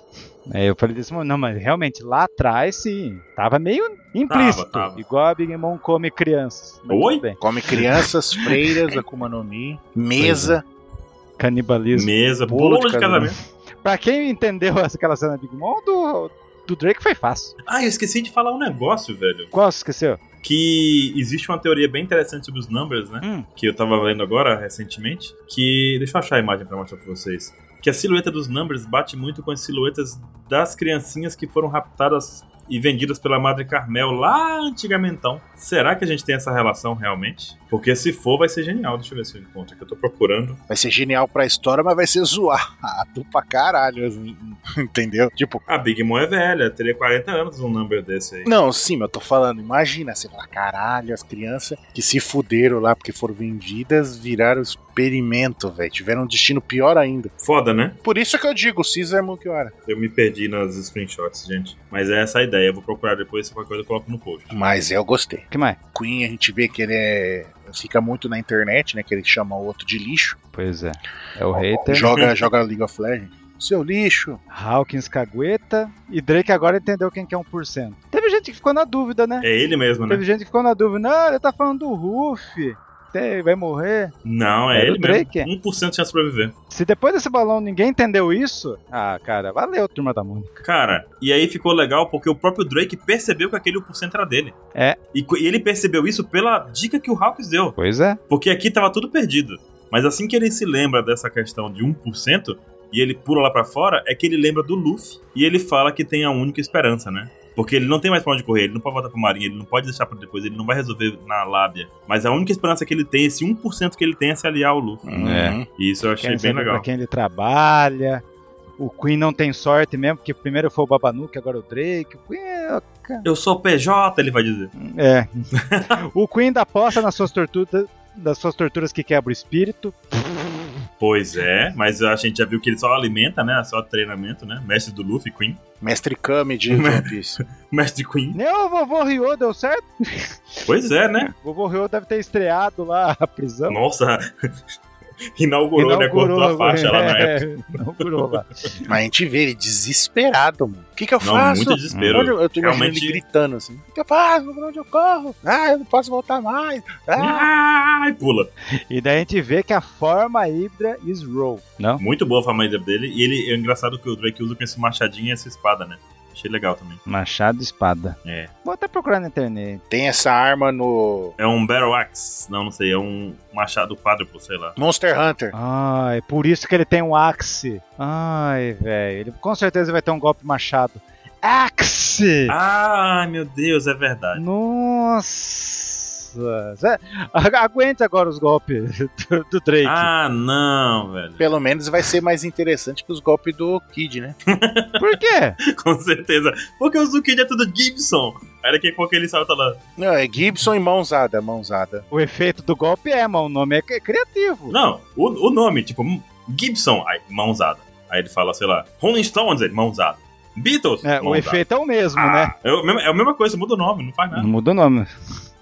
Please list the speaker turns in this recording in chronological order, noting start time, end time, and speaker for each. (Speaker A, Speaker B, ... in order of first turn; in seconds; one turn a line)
Speaker A: 0.5-7.4
Speaker B: 4.3-5.0
Speaker B: 6.9-7.2
Speaker C: 7.4-10.6
Speaker A: 10.2-10.6
Speaker A: 11.4-12.1
Speaker B: 11.9-13.4
Speaker C: 12.5-13.2
Speaker A: 13.8-17.6
Speaker B: 17.7-19.5
Speaker A: 19.5-20.2
Speaker B: 20.4-40.6
Speaker A: 23.2-23.5
Speaker C: 40.7-45.6
Speaker B: 45.7-48.5
Speaker C: 48.5-57.3
Speaker B: 57.4-58.0
Speaker C: 58.0-59.7
Speaker B: 59.9-64.5
Speaker C: 64.5-70.4
Speaker A: 65.5-65.8
Speaker A: 70.5-72.1
Speaker C: 71.8-74.4
Speaker B: 72.0-72.3
Speaker A: 74.5-79.5
Speaker B: 79.4-80.2
Speaker A: 80.1-84.1
Speaker B: 84.2-86.5
Speaker A: 84.7-85.5
Speaker A: 86.7-90.6
Speaker B: 90.6-94.5
Speaker B: 95.1-97.8
Speaker A: 97.8-98.2
Speaker B: 98.3-116.8
Speaker C: 115.1-115.7
Speaker A: 115.2-115.6
Speaker A: 116.2-118.2
Speaker A: 118.8-123.2
Speaker B: 123.2-124.7
Speaker A: 124.8-130.6
Speaker B: 125.5-125.9
Speaker B: 131.0-135.6
Speaker C: 135.8-137.4
Speaker B: 136.7-138.4
Speaker A: 138.3-140.6
Speaker B: 140.7-141.3
Speaker A: 141.2-143.8
Speaker B: 143.7-144.5
Speaker B: 145.3-147.4
Speaker A: 145.8-148.9
Speaker C: 148.9-157.5
Speaker B: 151.2-153.2
Speaker A: 151.9-152.2
Speaker B: 157.2-158.5
Speaker A: 158.9-162.0
Speaker B: 162.0-167.0
Speaker A: 167.1-169.8
Speaker B: 168.2-168.5
Speaker C: 169.9-171.3
Speaker B: 171.4-174.8
Speaker C: 174.8-175.5
Speaker A: 175.5-182.5
Speaker B: 182.5-184.4
Speaker A: 184.3-190.1
Speaker B: 189.8-191.4
Speaker C: 191.4-194.4
Speaker B: 194.5-199.8
Speaker A: 195.0-195.6
Speaker C: 200.0-202.1
Speaker A: 202.1-204.8
Speaker B: 204.7-211.6
Speaker A: 211.0-212.5
Speaker B: 212.2-214.5
Speaker A: 214.3-215.1